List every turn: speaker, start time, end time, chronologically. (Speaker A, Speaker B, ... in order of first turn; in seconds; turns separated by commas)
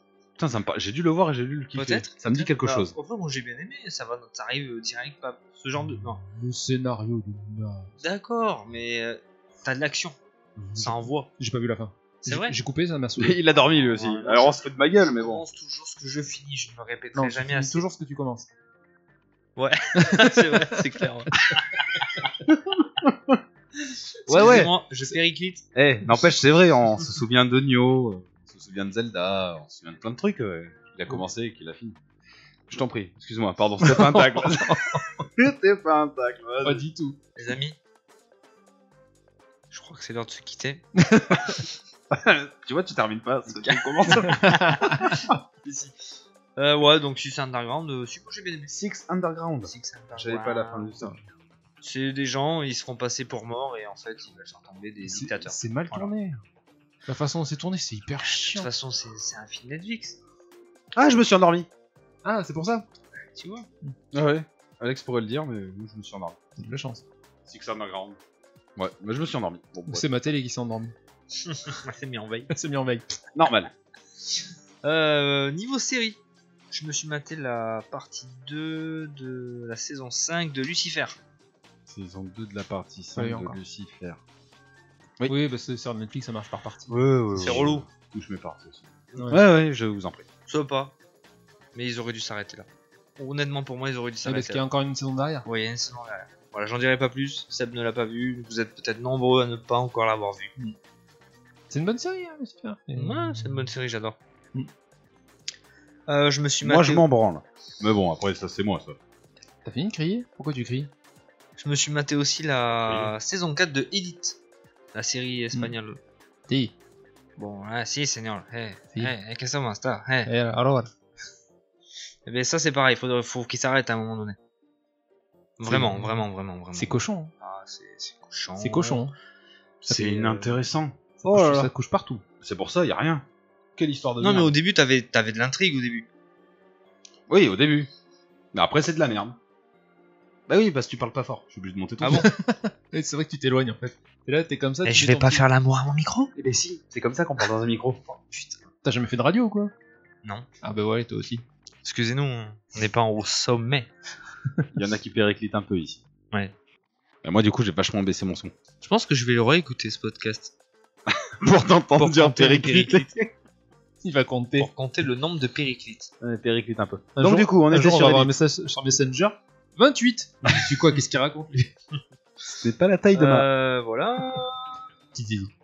Speaker A: 0.4-3.0, Speaker B: 1.7-6.2, Speaker C: 5.8-8.0, Speaker B: 8.0-10.2, Speaker C: 10.6-13.4, Speaker B: 10.8-11.3, Speaker B: 12.2-12.6, Speaker A: 13.2-15.4, Speaker B: 13.6-17.9, Speaker C: 17.1-18.5, Speaker B: 19.6-22.3, Speaker C: 20.0-20.8, Speaker A: 22.5-23.4, Speaker B: 24.2-25.6, Speaker A: 24.3-24.7, Speaker A: 25.8-32.0, Speaker A: 32.7-36.9, Speaker C: 33.8-35.2, Speaker C: 36.6-37.2, Speaker B: 37.4-37.8, Speaker B: 39.7-40.9, Speaker C: 41.0-41.6, Speaker A: 42.1-45.1, Speaker B: 43.6-45.2, Speaker C: 44.2-45.1, Speaker A: 45.6-45.9, Speaker B: 46.6-48.8, Speaker A: 48.7-51.2, Speaker B: 49.6-51.0, Speaker B: 51.8-56.1, Speaker C: 55.0-56.4, Speaker C: 57.1-58.7, Speaker B: 58.2-60.2, Speaker A: 61.0-61.7, Speaker C: 62.2-62.9, Speaker B: 63.3-63.7, Speaker A: 64.1-66.4, Speaker C: 66.6-67.0, Speaker A: 67.5-68.2, Speaker A: 68.8-70.0, Speaker C: 69.9-70.9, Speaker B: 71.4-72.5, Speaker C: 72.5-73.2, Speaker A: 73.3-73.7, Speaker B: 74.8-76.2, Speaker B: 76.7-81.2, Speaker A: 81.9-84.2, Speaker C: 83.2-83.6, Speaker C: 85.3-87.0, Speaker A: 86.9-90.3, Speaker B: 87.4-87.9, Speaker B: 90.5-91.0, Speaker B: 91.7-92.7, Speaker B: 93.2-94.6, Speaker C: 94.2-95.5, Speaker B: 95.5-100.5, Speaker C: 101.7-103.7, Speaker B: 103.0-104.2, Speaker B: 106.1-107.0, Speaker A: 106.6-109.0, Speaker C: 109.7-110.9, Speaker B: 111.6-114.4, Speaker A: 112.8-113.1, Speaker B: 114.9-116.0, Speaker C: 116.5-116.7, Speaker B: 117.4-120.3, Speaker C: 120.3-120.9, Speaker B: 122.3-124.4, Speaker B: 125.6-129.0, Speaker C: 125.7-126.2, Speaker C: 126.7-127.3, Speaker C: 128.6-129.1, Speaker A: 129.8-131.7, Speaker B: 129.9-130.6, Speaker C: 131.2-132.2, Speaker A: 132.4-134.6, Speaker B: 134.2-136.1, Speaker A: 137.3-137.9, Speaker A: 138.5-139.4, Speaker A: 140.5-142.3, Speaker B: 142.0-142.3, Speaker C: 142.1-145.4, Speaker B: 144.8-146.3, Speaker A: 146.4-148.2, Speaker C: 148.8-149.7, Speaker C: 150.6-151.4, Speaker B: 151.8-153.9, Speaker A: 154.7-156.0, Speaker A: 157.2-158.5, Speaker B: 158.8-160.5, Speaker A: 161.1-163.1, Speaker B: 162.0-163.2, Speaker C: 164.0-164.7, Speaker B: 164.6-166.1, Speaker A: 166.2-168.3, Speaker C: 167.2-171.7, Speaker A: 172.6-173.5, Speaker B: 173.1-174.8, Speaker C: 175.1-175.5